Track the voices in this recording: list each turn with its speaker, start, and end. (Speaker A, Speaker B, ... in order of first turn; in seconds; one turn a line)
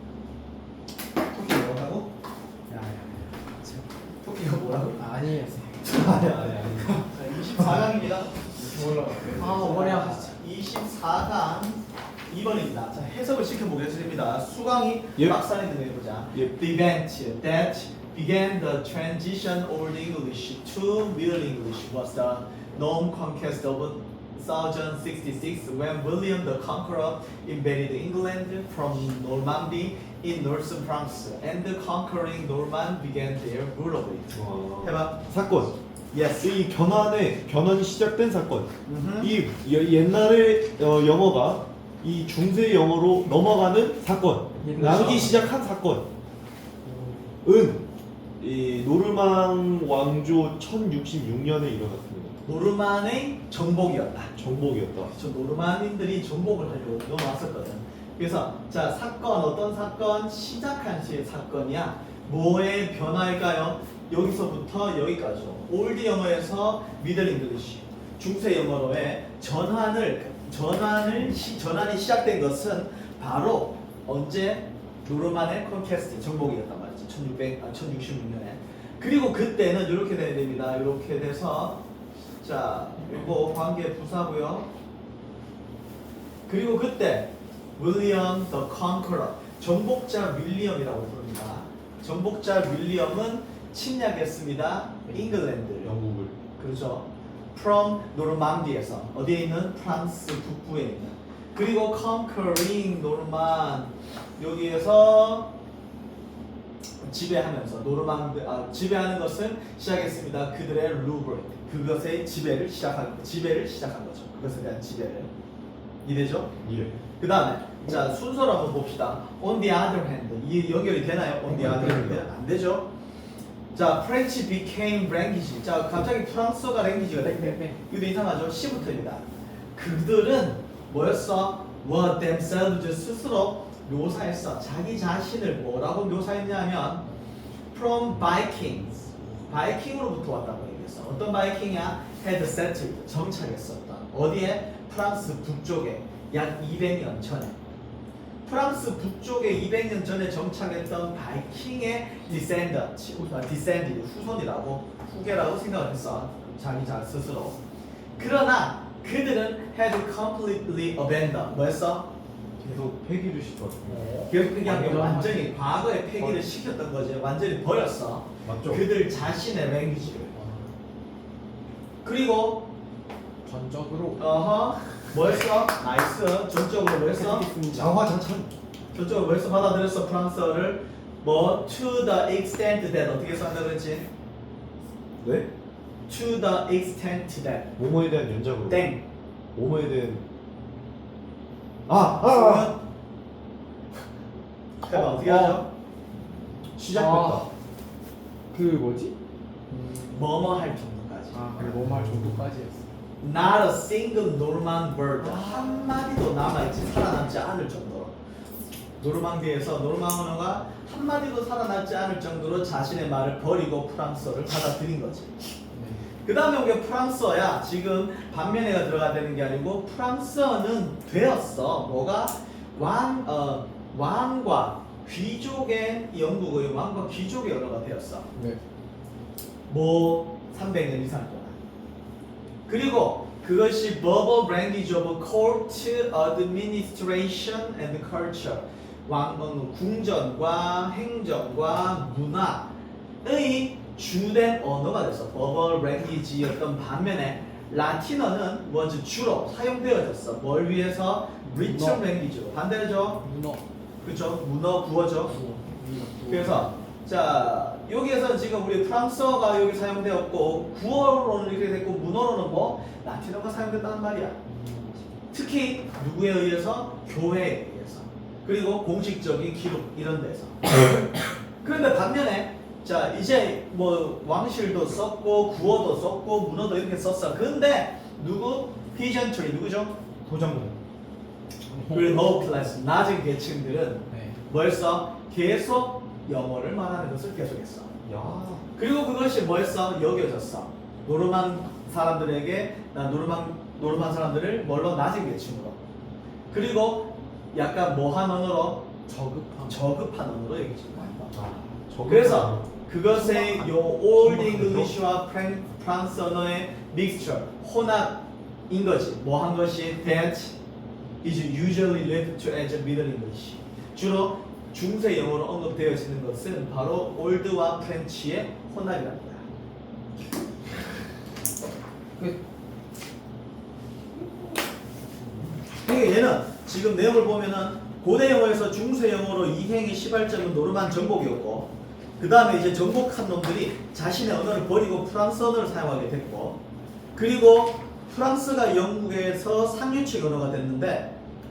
Speaker A: 1.3-2.1
Speaker B: 2.8-3.8
Speaker A: 4.2-5.0
Speaker B: 4.8-5.9
Speaker A: 5.8-8.5
Speaker C: 6.1-6.9
Speaker B: 8.5-10.4
Speaker A: 9.3-35.2
Speaker C: 34.3-35.8
Speaker A: 36.1-36.5
Speaker C: 36.4-46.0
Speaker A: 38.9-39.4
Speaker B: 44.6-45.5
Speaker A: 44.8-45.3
Speaker B: 46.8-47.3
Speaker C: 47.4-47.8
Speaker C: 48.4-52.4
Speaker A: 52.4-54.3
Speaker C: 54.4-55.1
Speaker A: 55.0-81.8
Speaker A: 82.4-84.7
Speaker A: 86.5-95.9
Speaker C: 95.8-96.3
Speaker A: 96.6-105.5
Speaker A: 107.0-115.3
Speaker A: 116.0-116.5
Speaker C: 116.6-117.0
Speaker A: 117.2-122.9
Speaker C: 121.5-122.2
Speaker B: 121.8-122.1
Speaker A: 123.7-137.1
Speaker B: 127.1-127.8
Speaker A: 137.7-147.6
Speaker A: 148.5-157.6
Speaker A: 158.2-162.1
Speaker C: 162.6-164.1
Speaker B: 163.8-165.7
Speaker A: 164.3-170.3
Speaker C: 168.4-168.8
Speaker B: 170.3-170.7
Speaker A: 172.0-172.7
Speaker B: 173.4-174.2
Speaker A: 174.2-177.5
Speaker B: 177.2-177.9
Speaker C: 177.7-178.5
Speaker A: 178.9-184.1
Speaker C: 185.2-185.5
Speaker A: 186.1-187.8
Speaker C: 187.8-188.9
Speaker A: 188.7-189.0
Speaker C: 189.6-190.2
Speaker C: 191.9-192.7
Speaker A: 192.2-192.8
Speaker A: 194.8-195.7
Speaker B: 194.8-195.6
Speaker C: 196.8-197.5
Speaker B: 196.9-197.5
Speaker B: 198.5-199.2
Speaker B: 199.7-200.2
Speaker A: 200.1-201.7
Speaker B: 201.3-202.8
Speaker C: 201.6-202.4
Speaker A: 203.2-208.2
Speaker B: 205.2-206.0
Speaker A: 209.0-215.3
Speaker B: 215.7-216.1
Speaker A: 216.2-228.3
Speaker A: 229.7-231.6
Speaker A: 232.7-242.7
Speaker A: 243.2-253.2
Speaker B: 251.6-252.1
Speaker B: 253.2-253.6
Speaker A: 254.0-255.3
Speaker B: 255.3-256.9
Speaker A: 256.3-264.4
Speaker B: 264.5-265.0
Speaker A: 265.3-271.0
Speaker A: 271.6-279.9
Speaker C: 280.2-280.8
Speaker B: 281.7-282.8
Speaker A: 281.9-287.9
Speaker B: 284.1-284.4
Speaker C: 288.1-288.6
Speaker A: 288.8-295.8
Speaker A: 296.5-298.9
Speaker B: 299.1-299.9
Speaker A: 299.7-301.3
Speaker C: 301.3-302.7
Speaker A: 302.1-310.6
Speaker B: 303.2-303.5
Speaker C: 304.1-305.0
Speaker A: 311.2-319.5
Speaker A: 325.7-336.6
Speaker A: 337.1-341.1